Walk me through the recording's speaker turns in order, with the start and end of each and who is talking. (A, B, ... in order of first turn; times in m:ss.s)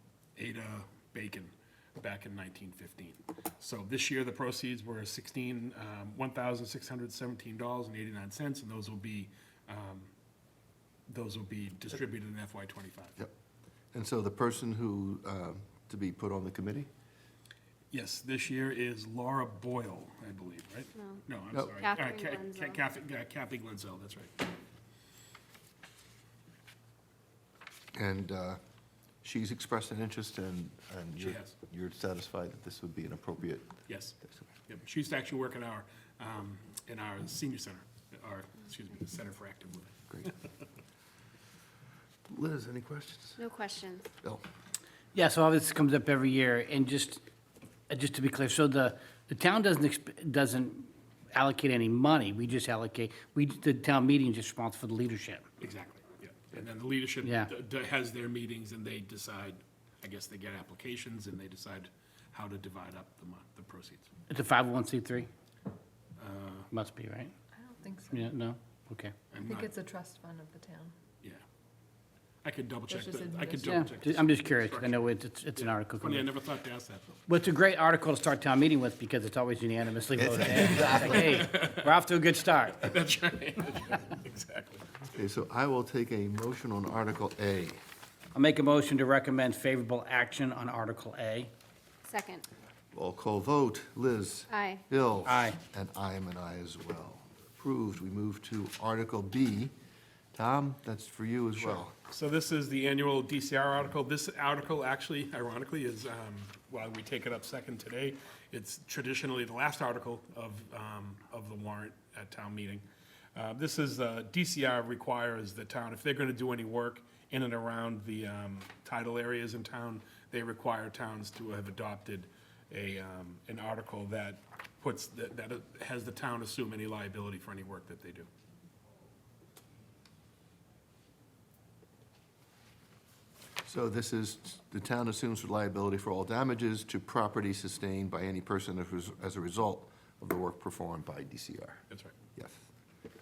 0:00.4-0:10.1 A
0:11.1-0:13.2 A
0:13.9-0:16.9 B
0:17.9-0:24.3 A
0:21.0-0:21.2 C
0:21.8-0:22.8 C
0:27.9-0:28.6 B
0:29.2-0:33.7 B
0:31.2-0:31.5 A
0:33.9-0:34.1 A
0:34.7-0:40.2 A
0:42.3-0:43.4 B
0:43.4-0:44.1 C
0:45.1-0:47.2 D
0:47.9-0:55.4 D
0:55.6-1:04.1 A
0:57.2-0:57.5 D
1:04.3-1:05.3 D
1:06.2-1:06.7 A
1:06.7-1:07.3 D
1:07.6-1:08.3 E
1:08.1-1:09.1 D
1:09.3-1:09.7 A
1:09.4-1:10.9 E
1:12.4-1:17.2 A
1:12.9-1:13.9 E
1:13.6-1:16.3 D
1:17.3-1:22.9 D
1:20.2-1:21.4 B
1:21.3-1:21.7 A
1:22.8-1:24.8 A
1:25.1-1:27.8 B
1:28.3-1:31.5 D
1:32.0-1:32.4 C
1:32.9-1:39.7 B
1:34.5-1:34.8 C
1:35.2-1:35.6 D
1:40.3-1:41.9 B
1:41.6-1:52.8 A
1:53.4-2:08.3 A
2:13.6-2:21.8 B
2:22.4-2:22.7 B